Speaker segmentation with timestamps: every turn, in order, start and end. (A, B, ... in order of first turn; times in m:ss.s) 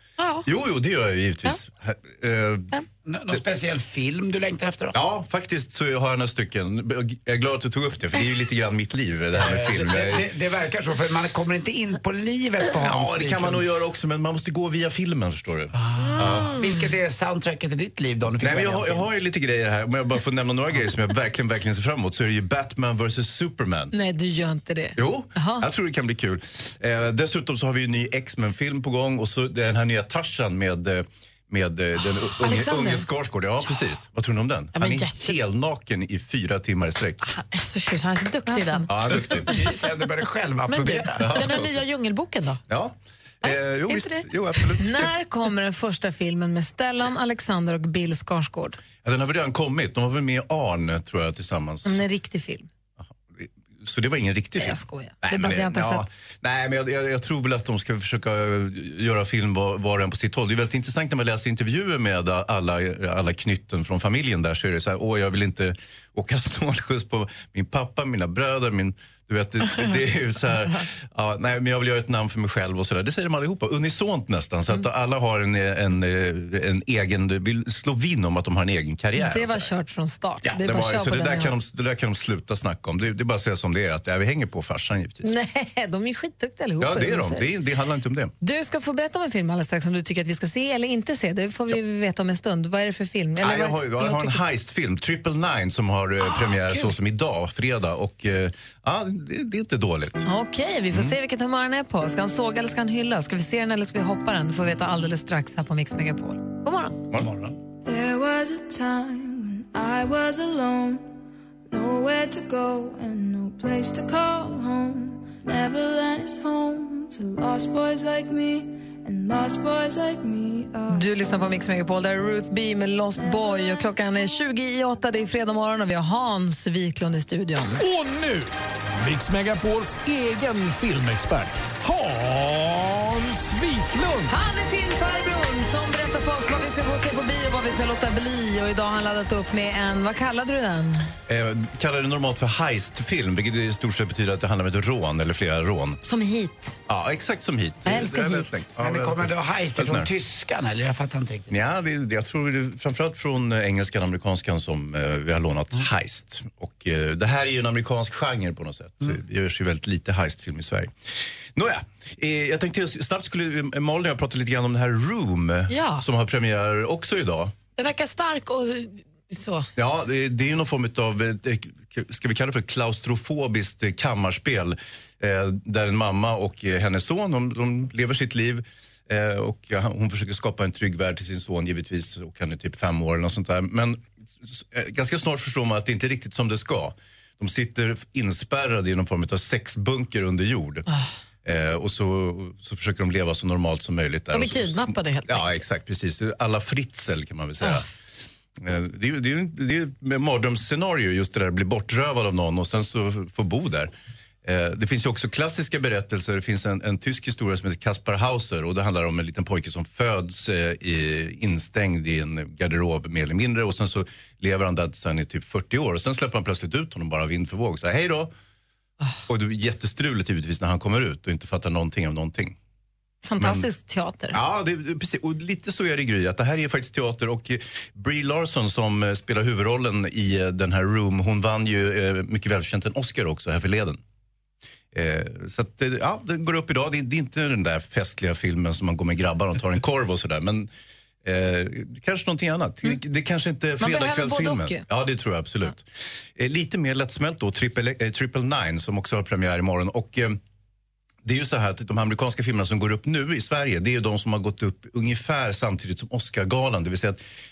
0:00.2-0:00.5 A
0:00.4-0:02.8 B
0:03.1-0:05.0 C
0:04.9-0:10.3 B
0:09.3-0:13.6 C
0:12.7-0:16.6 B
0:15.7-0:19.1 C
0:18.4-0:23.9 B
0:23.9-0:25.7 D
0:25.0-0:37.2 B
0:32.3-0:33.1 D
0:34.8-0:35.4 A
0:37.2-0:38.9 A
0:38.5-0:38.9 D
0:38.9-0:39.5 B
0:39.4-0:41.4 C
0:40.7-0:42.6 A
0:41.2-0:41.8 B
0:42.7-0:45.1 B
0:43.9-0:44.2 A
0:44.8-0:48.8 D
0:49.0-0:52.0 B
0:51.8-0:52.7 D
0:53.4-1:19.7 B
0:54.6-0:56.0 D
1:19.2-1:21.5 D
1:20.4-1:25.3 B
1:25.2-1:27.5 D
1:26.8-1:28.3 B
1:28.4-1:34.4 D
1:33.4-1:40.2 B
1:36.3-1:36.9 D
1:40.2-1:47.0 D
1:47.1-1:47.6 C
1:47.8-1:51.2 E
1:51.7-2:01.1 E
2:00.9-2:07.8 D
2:07.8-2:14.4 F
2:14.3-2:21.1 D
2:21.3-2:26.0 B
2:26.0-2:26.8 D
2:26.9-2:30.1 B
2:27.9-2:28.6 D
2:28.8-2:31.6 C
2:31.5-2:47.6 B
2:45.7-2:46.0 A
2:47.8-2:49.7 A
2:49.8-3:10.8 B
3:11.4-3:17.9 B
3:14.3-3:15.5 A
3:18.6-3:23.9 B
3:24.4-3:38.3 B
3:39.3-3:42.6 B
3:43.2-3:44.4 D
3:43.4-3:43.7 B
3:44.3-3:54.0 B
3:54.9-4:00.7 B
4:01.2-4:10.4 B
4:03.8-4:04.8 D
4:11.2-4:17.2 B